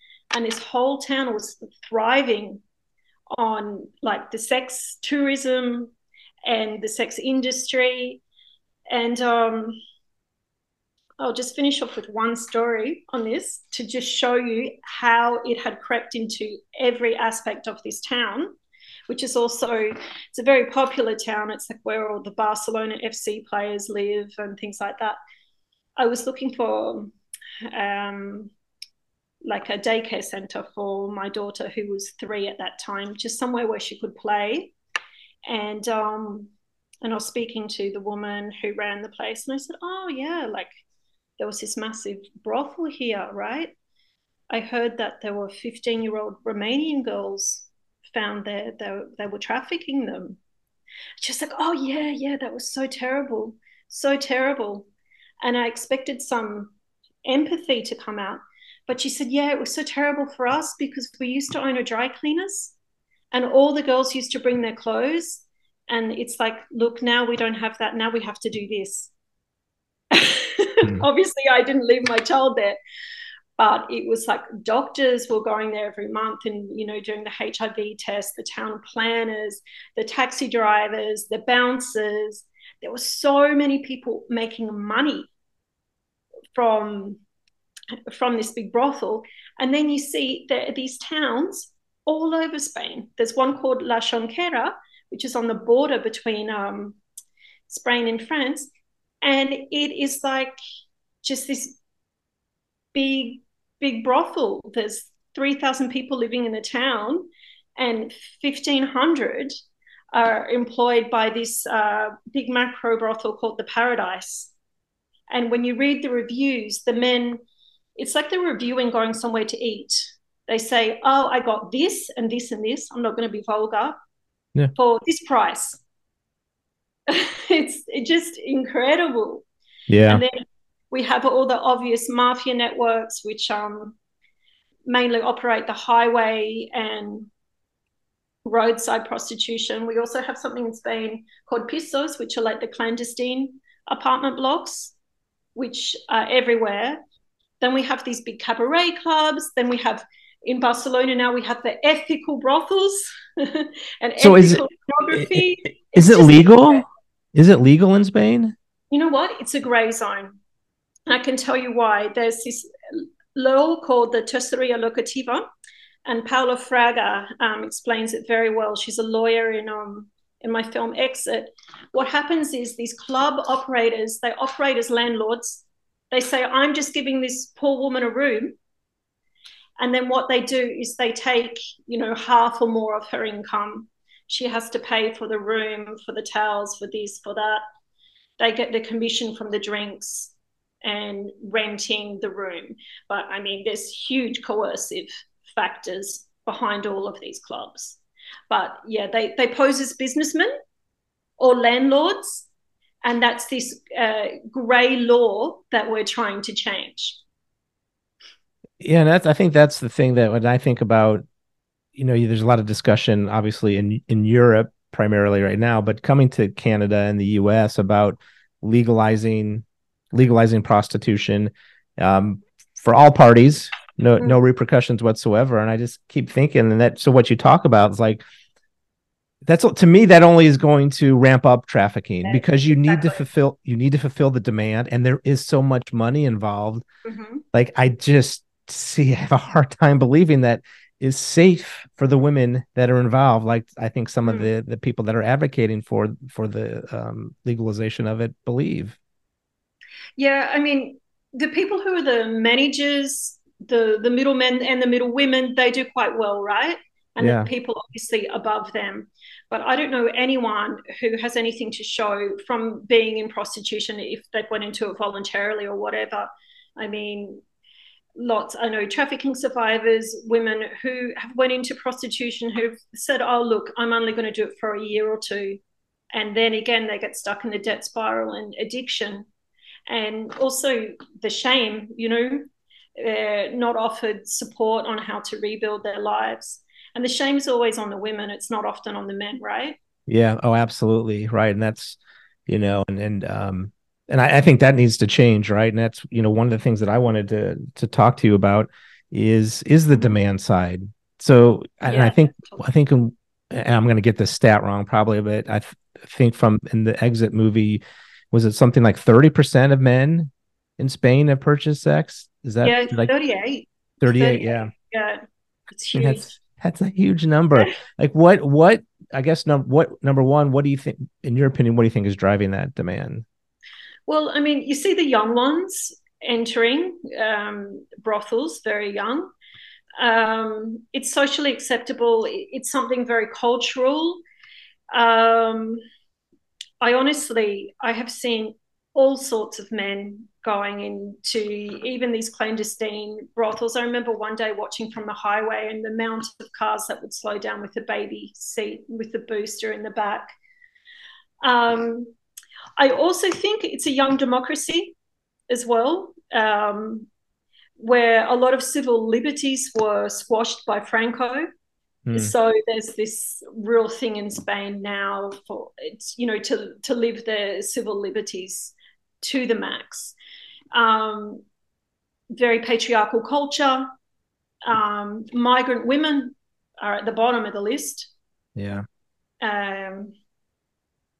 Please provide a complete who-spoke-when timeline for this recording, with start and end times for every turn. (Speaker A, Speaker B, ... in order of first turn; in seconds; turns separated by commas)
Speaker A: 0.3-2.6, Speaker A: 3.3-5.9, Speaker A: 6.4-8.2, Speaker A: 8.9-9.8, Speaker A: 11.2-18.6, Speaker A: 19.1-25.2, Speaker A: 26.0-27.1, Speaker A: 27.7-28.5, Speaker A: 29.4-34.7, Speaker A: 35.5-36.5, Speaker A: 37.0-40.7, Speaker A: 41.4-43.7, Speaker A: 44.5-50.4, Speaker A: 51.2-54.9, Speaker A: 55.4-56.7, Speaker A: 57.2-62.7, Speaker A: 63.3-69.1, Speaker A: 70.1-72.8, Speaker A: 73.6-85.3, Speaker A: 86.5-87.2, Speaker A: 88.1-97.0, Speaker A: 97.7-98.7, Speaker A: 99.2-100.5, Speaker A: 101.2-101.8, Speaker A: 102.9-109.5, Speaker A: 110.1-114.5, Speaker A: 115.3-117.4, Speaker A: 118.0-124.0, Speaker A: 124.7-125.8, Speaker A: 127.1-129.4, Speaker B: 129.9-130.2, Speaker A: 130.1-133.9, Speaker A: 134.9-137.3, Speaker A: 138.4-144.9, Speaker A: 145.5-147.0, Speaker A: 147.6-156.8, Speaker B: 154.2-155.4, Speaker B: 155.9-158.5, Speaker A: 158.9-160.4, Speaker A: 161.1-165.4, Speaker A: 166.1-178.6, Speaker A: 179.8-187.6, Speaker A: 188.4-190.3, Speaker A: 190.8-198.0, Speaker A: 198.5-200.5, Speaker A: 201.4-202.4, Speaker A: 203.0-207.2, Speaker B: 208.8-211.2, Speaker B: 211.9-228.2, Speaker B: 229.4-236.8, Speaker A: 232.2-233.2, Speaker A: 237.0-237.4, Speaker B: 237.5-249.0, Speaker A: 244.2-244.5, Speaker A: 250.2-267.4, Speaker B: 257.2-257.5, Speaker A: 268.2-275.6, Speaker A: 276.1-279.3, Speaker A: 279.9-282.5, Speaker A: 283.0-289.8, Speaker B: 290.1-307.8, Speaker A: 301.9-302.6, Speaker B: 308.3-313.1, Speaker A: 312.6-316.3, Speaker B: 314.0-314.7, Speaker B: 315.9-323.2, Speaker A: 324.1-329.3, Speaker A: 330.0-334.2, Speaker A: 334.9-335.8, Speaker A: 336.8-350.3, Speaker A: 351.4-352.1, Speaker A: 352.8-354.9, Speaker A: 355.5-357.1, Speaker A: 357.8-361.4, Speaker B: 362.1-362.3, Speaker A: 362.1-370.1, Speaker A: 370.7-371.4, Speaker A: 372.3-373.9, Speaker A: 374.6-378.1, Speaker B: 378.6-378.8, Speaker A: 379.4-380.1